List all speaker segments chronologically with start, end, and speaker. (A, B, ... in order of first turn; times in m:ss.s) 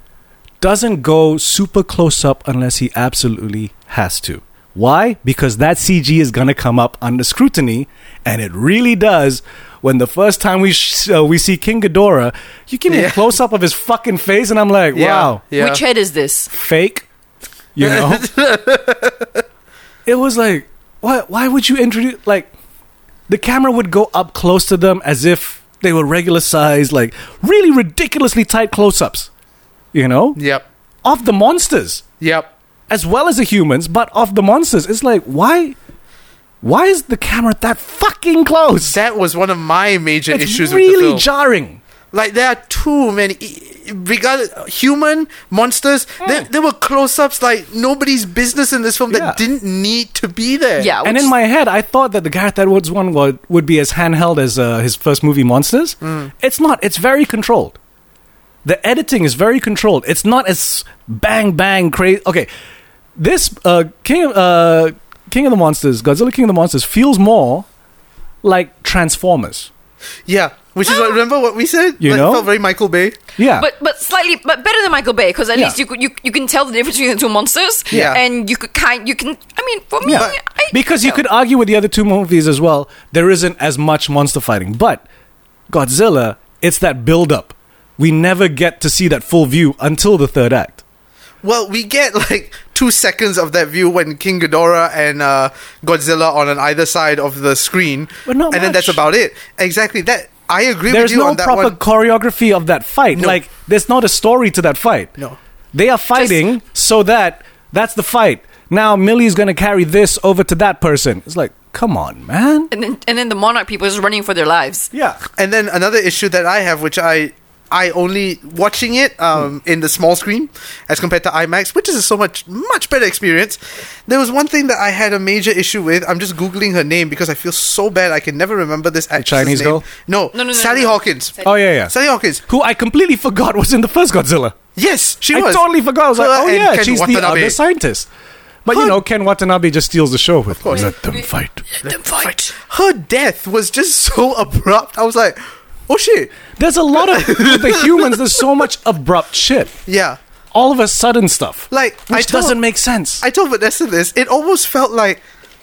0:00.6-0:15.4 A
0:12.9-0:13.2 B
0:14.9-0:15.8 B
0:15.5-0:16.5 C
0:16.5-0:17.1 A
0:17.8-0:18.3 A
0:17.8-0:19.3 B
0:20.1-0:22.5 A
0:23.3-0:29.3 A
0:29.9-0:30.4 A
0:30.4-0:30.6 B
0:31.0-0:32.0 A
0:32.2-0:32.5 B
0:32.9-0:35.8 A
0:36.6-0:39.0 A
0:38.9-0:41.2 B
0:40.3-0:41.8 A
0:42.1-0:50.9 B
0:49.1-0:49.4 A
0:50.8-0:51.3 C
0:51.0-0:57.8 A
0:56.0-0:56.3 B
0:58.6-1:02.5 A
1:03.2-1:07.7 A
1:08.4-1:09.7 A
1:10.3-1:13.2 B
1:10.8-1:11.2 C
1:12.0-1:12.5 A
1:13.4-1:13.7 A
1:13.6-1:21.2 C
1:17.9-1:18.2 A
1:17.9-1:18.2 B
1:20.0-1:25.0 A
1:20.1-1:20.4 B
1:25.7-1:30.8 A
1:31.4-1:41.8 B
1:38.3-1:39.0 A
1:40.9-1:45.1 A
1:43.1-1:43.4 B
1:45.7-1:52.7 A
1:46.2-1:46.4 C
1:52.7-1:54.9 C
1:54.9-1:55.2 A
1:55.4-2:12.4 B
2:09.2-2:09.9 A
2:10.3-2:11.5 C
2:11.4-2:11.9 A
2:12.5-2:14.6 A
2:14.8-2:17.6 B
2:15.3-2:18.1 A
2:18.6-2:21.6 A
2:18.7-2:19.0 B
2:20.6-2:20.9 B
2:20.8-2:22.5 C
2:21.8-2:28.4 B
2:26.6-2:29.8 A
2:29.9-2:30.2 B
2:30.5-2:33.2 A
2:31.7-2:32.6 B
2:33.2-2:35.2 B